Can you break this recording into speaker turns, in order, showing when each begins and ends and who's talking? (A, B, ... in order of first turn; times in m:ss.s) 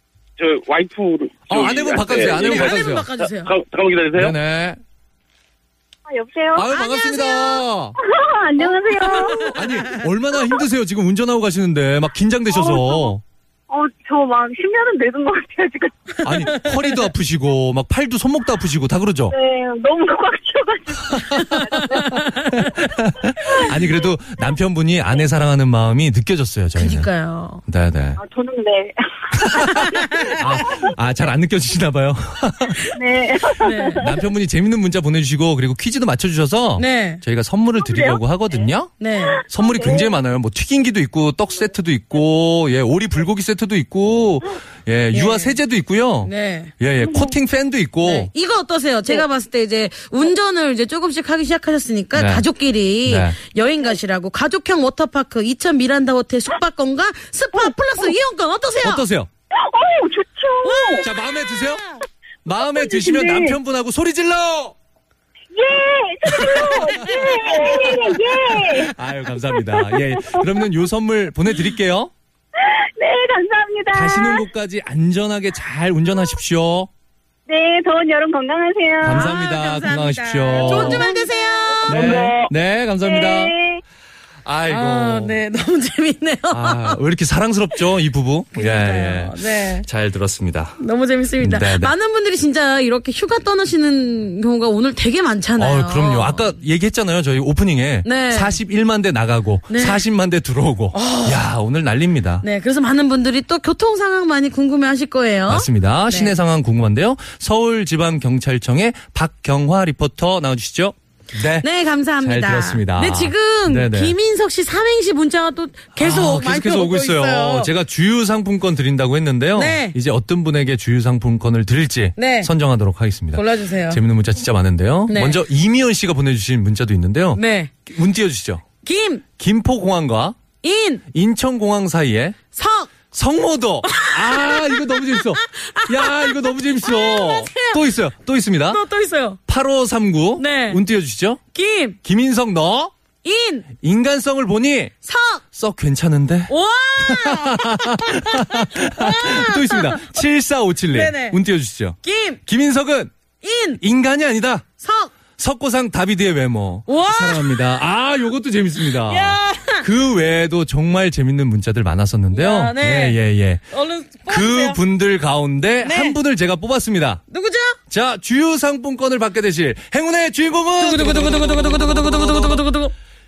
0:00.4-0:04.3 A
0:01.5-0:03.1 B
0:02.3-0:03.5 C
0:04.2-0:04.8 B
0:06.1-0:06.7 D
0:06.5-0:08.0 B
0:06.7-0:07.6 C
0:08.0-0:09.5 D
0:09.0-0:10.0 C
0:09.0-0:13.2 B
0:12.5-0:13.1 D
0:13.7-0:16.2 D
0:16.2-0:19.3 B
0:16.5-0:17.0 C
0:19.3-0:23.5 D
0:21.1-0:27.1 B
0:22.0-0:22.4 C
0:26.8-0:27.6 C
0:27.6-0:28.2 B
0:28.2-0:30.9 D
0:29.4-0:32.9 B
0:29.7-0:30.4 C
0:32.9-0:34.2 D
0:33.6-0:34.0 C
0:33.9-0:48.3 B
0:36.8-0:37.2 C
0:37.8-0:38.2 D
0:39.0-0:39.4 C
0:39.2-0:40.1 D
0:45.1-0:45.6 C
0:46.2-0:46.7 C
0:47.0-0:47.3 D
0:48.0-0:59.0 C
0:52.1-0:52.5 B
0:53.0-0:53.4 B
0:58.8-0:59.3 B
0:59.5-1:01.0 D
1:00.6-1:02.0 C
1:01.0-1:01.8 B
1:02.4-1:04.7 B
1:02.5-1:03.6 D
1:05.5-1:10.4 D
1:06.3-1:12.1 B
1:07.0-1:07.2 C
1:12.6-1:14.4 D
1:13.9-1:16.9 B
1:17.5-1:19.3 D
1:19.0-1:21.1 B
1:19.0-1:22.2 C
1:20.6-1:22.4 D
1:21.8-1:22.4 A
1:21.9-1:23.5 B
1:23.0-1:23.8 D
1:24.4-1:25.4 B
1:24.7-1:27.0 C
1:26.5-1:30.8 B
1:28.5-1:29.8 C
1:30.8-1:36.5 C
1:31.4-1:31.9 B
1:35.6-1:42.4 B
1:38.0-1:38.6 C
1:39.7-1:40.0 C
1:40.9-1:41.4 C
1:42.4-1:46.4 C
1:45.5-1:51.7 B
1:51.6-1:57.7 C
1:52.2-1:54.2 B
1:55.9-2:08.6 B
1:59.5-2:00.0 C
2:02.2-2:02.5 C
2:03.3-2:04.0 C
2:05.1-2:05.4 C
2:07.3-2:07.7 C
2:08.8-2:09.2 C
2:09.4-2:10.4 B
2:10.6-2:11.0 C
2:11.1-2:12.4 B
2:12.5-2:12.9 C
2:13.1-2:18.8 B
2:13.8-2:17.9 C
2:18.7-2:19.4 C
2:19.5-2:21.4 B
2:20.4-2:20.8 C
2:21.5-2:22.0 C
2:22.0-2:22.9 B
2:23.2-2:23.7 C
2:23.8-2:24.9 B
2:25.0-2:25.4 C
2:25.5-2:33.1 B
2:26.5-2:30.2 C
2:30.9-2:31.4 C
2:32.0-2:32.4 C
2:33.4-2:33.8 C
2:33.8-2:34.6 B
2:34.8-2:35.1 C
2:35.4-2:43.6 B
2:36.9-2:37.6 C
2:38.8-2:39.9 C
2:42.3-2:44.8 C
2:44.3-2:47.2 B
2:45.8-2:46.2 C
2:47.3-2:47.8 C
2:47.9-2:52.6 B
2:50.8-2:52.9 C